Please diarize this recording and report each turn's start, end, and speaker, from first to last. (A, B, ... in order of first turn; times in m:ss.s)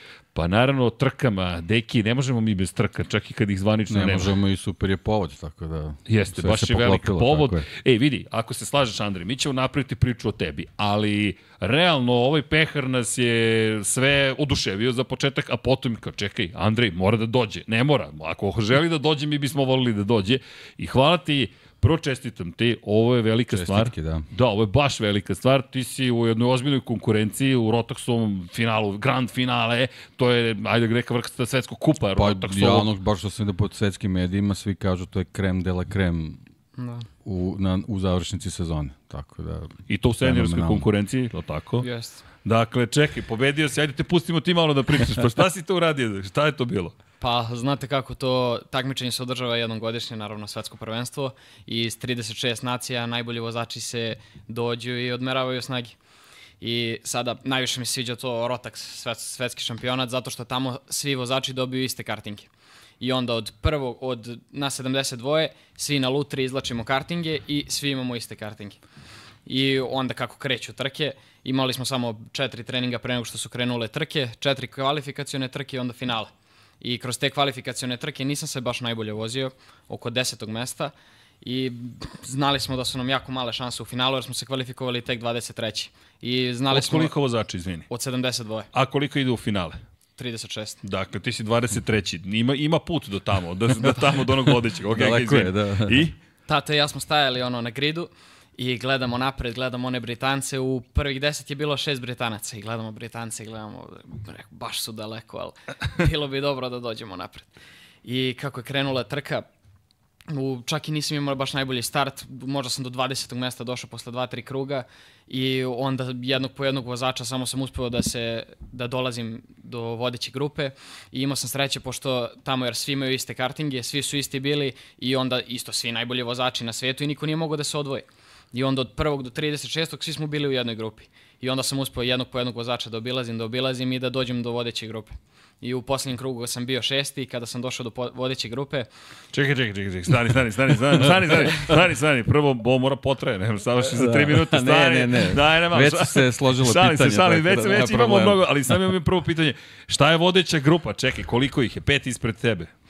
0:00.4-0:04.4 A
0:03.9-0:07.7 B
0:06.1-0:32.9 A
0:23.5-0:24.3 B
0:32.2-0:36.4 B
0:36.8-0:37.1 C
0:37.2-0:40.9 B
0:39.9-0:41.9 A
0:41.8-0:42.2 C
0:42.4-0:47.0 A
0:47.2-0:56.0 C
0:56.6-1:02.5 C
1:03.0-1:08.8 C
1:09.5-1:27.1 C
1:26.7-1:27.9 A
1:27.9-1:28.7 C
1:28.7-1:29.8 A
1:30.2-1:30.8 C
1:30.8-1:36.2 A
1:34.9-1:36.1 B
1:36.5-1:47.5 C
1:48.0-1:49.5 C
1:50.3-2:18.9 C
2:19.3-2:32.7 A
2:23.9-2:28.4 B